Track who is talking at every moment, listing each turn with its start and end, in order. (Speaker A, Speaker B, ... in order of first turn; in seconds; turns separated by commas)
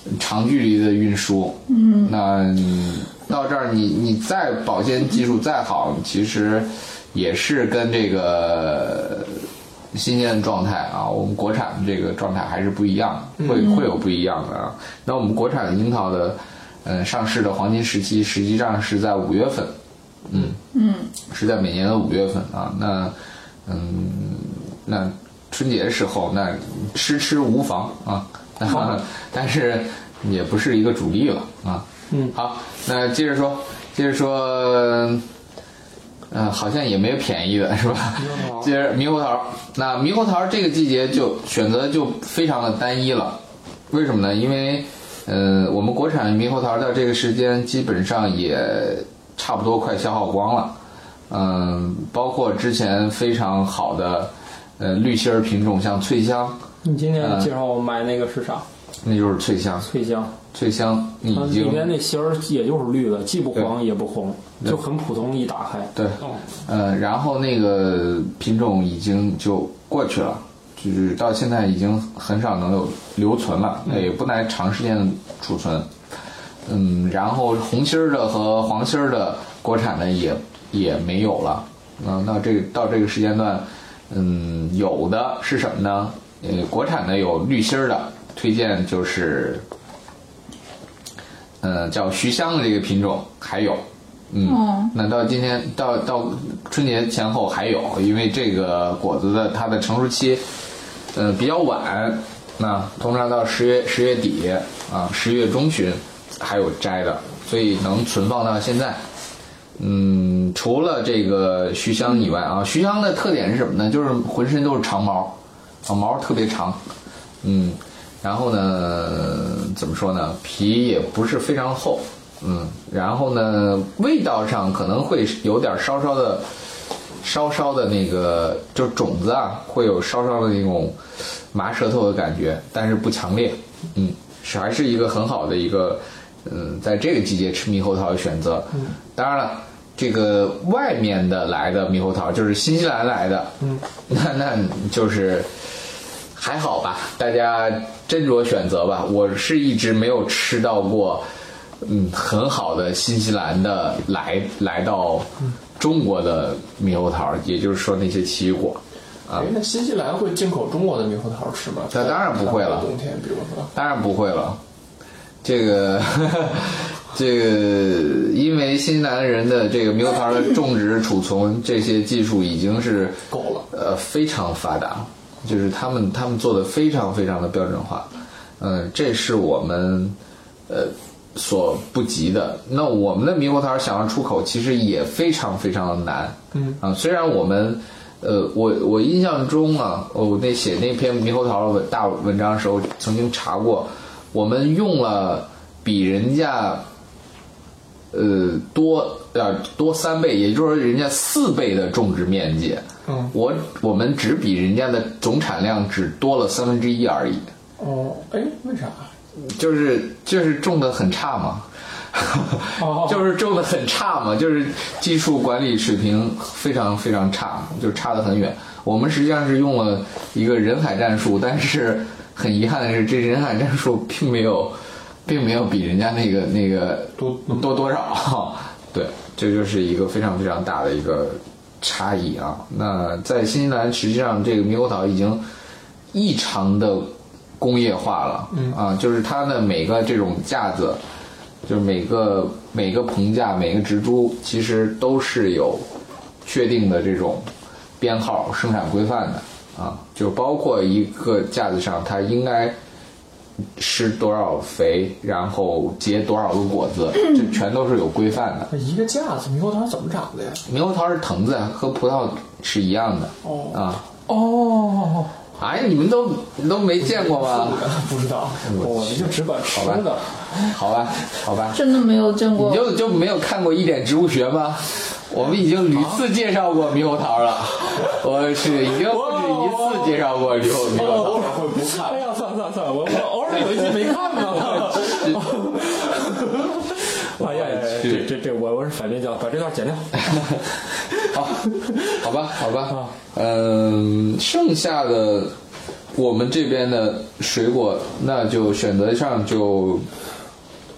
Speaker A: 0.1-19.7, Speaker B: 1.7-2.1, Speaker C: 13.4-13.7, Speaker B: 13.5-13.9, Speaker A: 20.3-20.6, Speaker B: 20.7-21.1, Speaker A: 21.3-23.1, Speaker A: 23.6-35.2, Speaker D: 32.1-32.3, Speaker A: 36.3-50.8, Speaker C: 38.2-38.7, Speaker A: 51.3-56.6, Speaker D: 56.8-58.6, Speaker A: 57.2-57.5, Speaker A: 59.0-59.9, Speaker D: 59.9-60.3, Speaker A: 60.5-61.9, Speaker D: 61.3-65.9, Speaker A: 65.9-75.9, Speaker A: 76.7-89.6, Speaker A: 91.6-100.4, Speaker B: 94.4-94.9, Speaker A: 101.1-109.0, Speaker A: 109.8-116.8, Speaker A: 117.4-126.5, Speaker A: 127.2-131.0, Speaker A: 131.5-143.6, Speaker A: 144.1-145.5, Speaker A: 146.3-151.2, Speaker A: 151.8-159.5, Speaker C: 159.3-163.7, Speaker A: 161.9-162.9, Speaker A: 163.7-164.6, Speaker A: 165.4-180.2, Speaker C: 173.3-173.7, Speaker A: 180.7-196.8, Speaker C: 186.5-186.8, Speaker A: 198.1-207.5, Speaker C: 203.1-203.3, Speaker C: 207.8-209.1, Speaker A: 209.4-235.4, Speaker D: 212.8-213.2, Speaker C: 227.2-227.7, Speaker A: 236.1-241.0, Speaker A: 241.6-245.8, Speaker A: 246.4-247.5, Speaker A: 248.0-252.8, Speaker A: 253.8-258.7, Speaker C: 258.7-260.6, Speaker A: 260.6-264.0, Speaker C: 263.4-263.8, Speaker D: 264.3-265.3, Speaker A: 265.6-267.8, Speaker C: 267.0-268.7, Speaker A: 268.6-271.8, Speaker D: 268.7-270.7, Speaker B: 271.7-272.9, Speaker A: 272.5-281.5, Speaker D: 278.9-280.2, Speaker C: 280.8-282.2, Speaker D: 280.9-290.6, Speaker A: 284.9-285.4, Speaker A: 287.4-288.3, Speaker A: 291.2-295.5, Speaker D: 291.8-292.2, Speaker D: 292.9-293.1, Speaker A: 296.1-300.1